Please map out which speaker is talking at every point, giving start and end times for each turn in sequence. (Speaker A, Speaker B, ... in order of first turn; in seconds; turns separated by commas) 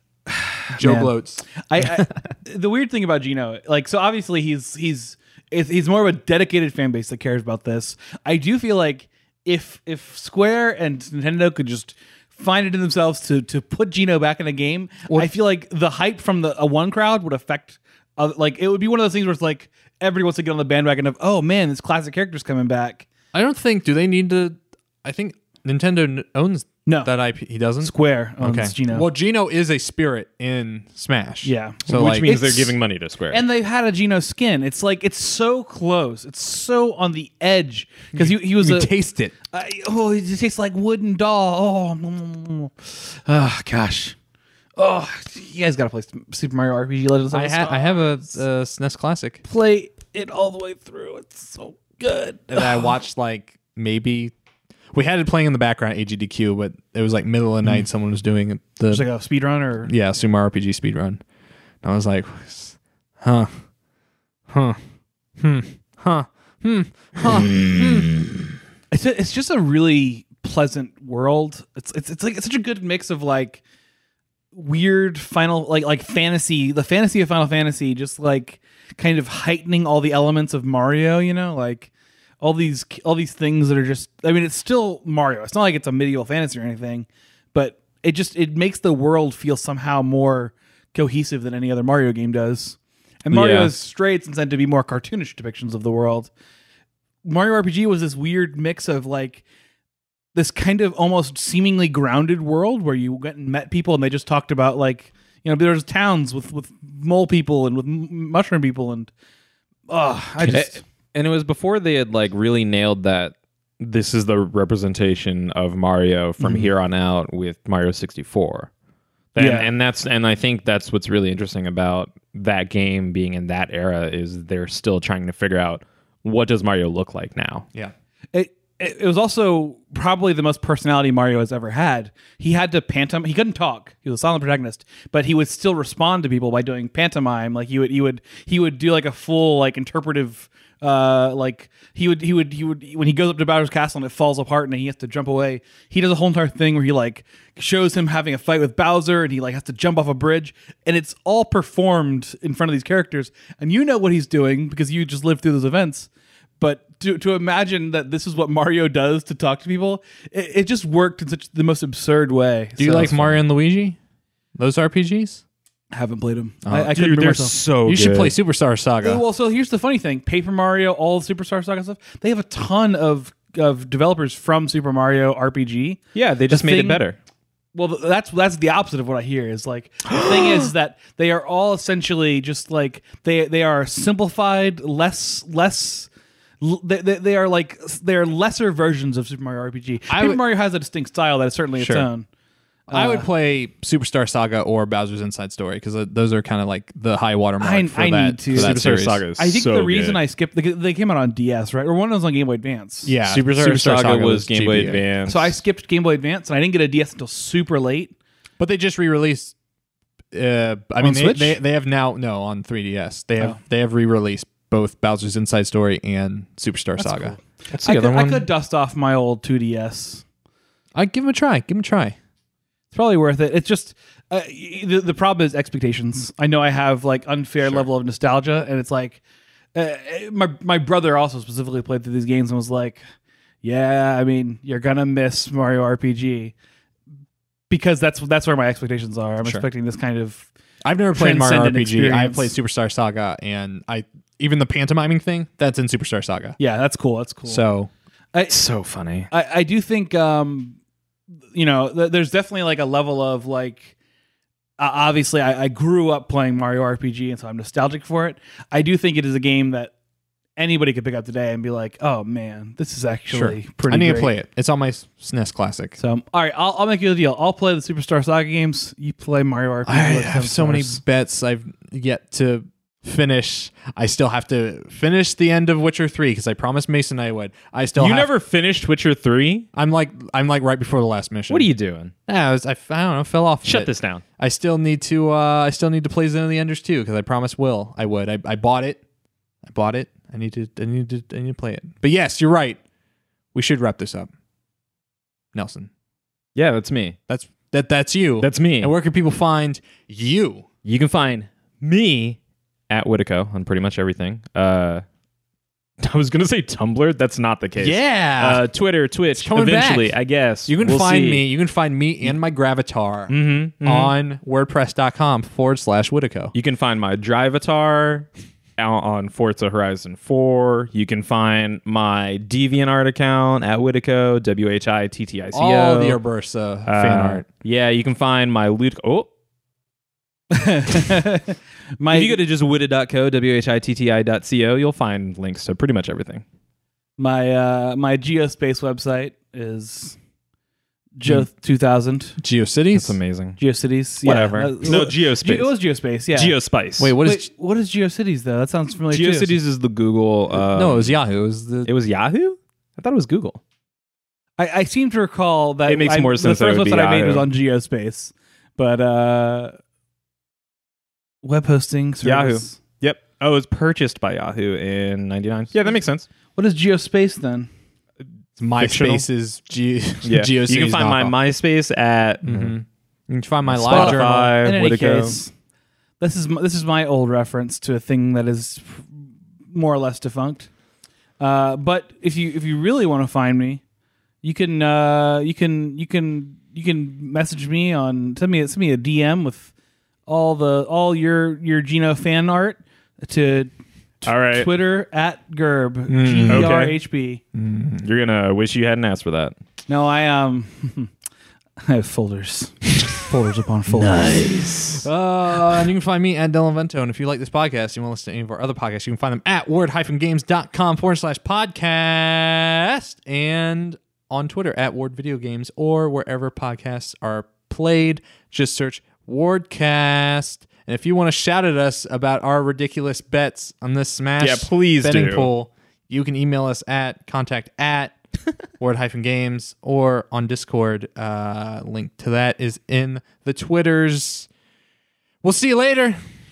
Speaker A: 0.3-23.1, Speaker B: 0.7-2.0, Speaker B: 23.3-32.4, Speaker A: 26.9-27.1, Speaker A: 27.8-29.1, Speaker A: 31.4-32.8, Speaker C: 31.9-33.4, Speaker A: 33.3-38.9, Speaker B: 38.1-39.3, Speaker A: 39.5-44.1, Speaker A: 44.8-48.2, Speaker B: 47.3-49.4, Speaker A: 49.5-52.9, Speaker B: 52.5-54.3, Speaker B: 54.9-59.0, Speaker A: 58.9-59.9, Speaker B: 59.8-61.2, Speaker B: 61.8-63.5, Speaker B: 64.5-64.8, Speaker B: 65.4-68.2, Speaker A: 68.9-73.6, Speaker A: 74.5-96.3, Speaker C: 93.3-93.7, Speaker A: 97.2-99.4, Speaker A: 100.3-109.1, Speaker A: 109.9-110.8, Speaker C: 110.4-118.7, Speaker A: 116.4-116.7, Speaker C: 119.3-127.7, Speaker A: 119.4-119.7, Speaker A: 128.3-156.1, Speaker A: 156.6-163.2, Speaker B: 162.8-164.0, Speaker B: 164.6-165.4, Speaker A: 165.9-167.6, Speaker B: 166.7-166.9, Speaker C: 166.9-168.3, Speaker B: 167.8-169.2, Speaker A: 169.0-177.0, Speaker C: 176.1-177.2, Speaker A: 177.7-186.1, Speaker C: 180.2-180.7, Speaker A: 186.6-192.2, Speaker B: 190.1-190.4, Speaker B: 191.8-192.1, Speaker A: 192.9-193.2, Speaker B: 192.9-199.2, Speaker A: 197.6-198.8, Speaker C: 198.5-200.2, Speaker A: 199.3-203.1, Speaker B: 203.0-205.0, Speaker C: 203.2-205.6, Speaker A: 205.2-208.1, Speaker B: 208.6-209.5, Speaker B: 210.3-218.4, Speaker A: 211.0-211.6, Speaker A: 217.0-220.2, Speaker C: 217.8-218.3, Speaker B: 220.9-222.2, Speaker A: 222.9-229.2, Speaker A: 229.7-233.0, Speaker A: 233.6-236.5, Speaker A: 237.7-240.5, Speaker B: 240.8-246.6, Speaker A: 241.1-242.5, Speaker A: 246.6-247.6, Speaker B: 247.4-247.9, Speaker A: 248.3-248.6, Speaker C: 248.5-249.3, Speaker A: 249.3-250.8, Speaker A: 251.5-253.9, Speaker A: 254.8-259.9, Speaker A: 260.6-264.3, Speaker B: 263.3-266.0, Speaker A: 266.0-271.0, Speaker B: 269.9-278.3, Speaker C: 277.9-279.7, Speaker B: 279.7-281.7, Speaker C: 281.5-282.1, Speaker B: 282.3-289.0, Speaker C: 283.6-284.2, Speaker B: 289.6-292.8, Speaker B: 293.5-294.3, Speaker B: 295.5-295.9, Speaker C: 296.5-297.2, Speaker B: 297.3-300.6, Speaker C: 298.4-298.9, Speaker C: 300.8-302.4, Speaker C: 302.9-305.0, Speaker C: 306.0-311.4, Speaker B: 307.8-308.6, Speaker B: 309.3-316.5, Speaker C: 313.3-314.1, Speaker C: 316.5-326.2, Speaker B: 325.5-327.4, Speaker C: 326.9-329.3, Speaker A: 330.5-332.4, Speaker C: 332.1-336.4, Speaker A: 337.2-340.2, Speaker A: 341.2-342.4, Speaker B: 342.4-343.2, Speaker C: 342.9-343.6, Speaker A: 343.6-346.6, Speaker C: 344.2-345.8, Speaker C: 346.3-347.1, Speaker B: 347.0-347.5, Speaker A: 347.2-349.6, Speaker C: 349.1-351.1, Speaker B: 350.7-351.9, Speaker C: 351.9-353.6, Speaker A: 354.6-359.7, Speaker C: 355.9-357.5, Speaker A: 361.4-362.8, Speaker C: 362.2-366.3, Speaker A: 366.6-367.7, Speaker B: 368.6-371.3, Speaker C: 368.8-369.2, Speaker C: 370.2-372.7, Speaker B: 372.4-374.5, Speaker C: 373.6-375.4, Speaker A: 373.9-375.5, Speaker A: 376.2-380.7, Speaker A: 381.4-383.8, Speaker A: 384.4-389.7, Speaker A: 390.3-393.7, Speaker C: 394.2-394.7, Speaker A: 394.3-397.4, Speaker B: 396.1-396.8, Speaker C: 396.5-397.0, Speaker B: 397.5-398.0, Speaker C: 398.0-399.6, Speaker A: 399.9-401.1, Speaker A: 401.8-404.8, Speaker C: 403.9-405.1, Speaker B: 405.0-428.2, Speaker C: 424.4-425.5, Speaker B: 428.8-434.5, Speaker B: 435.4-436.2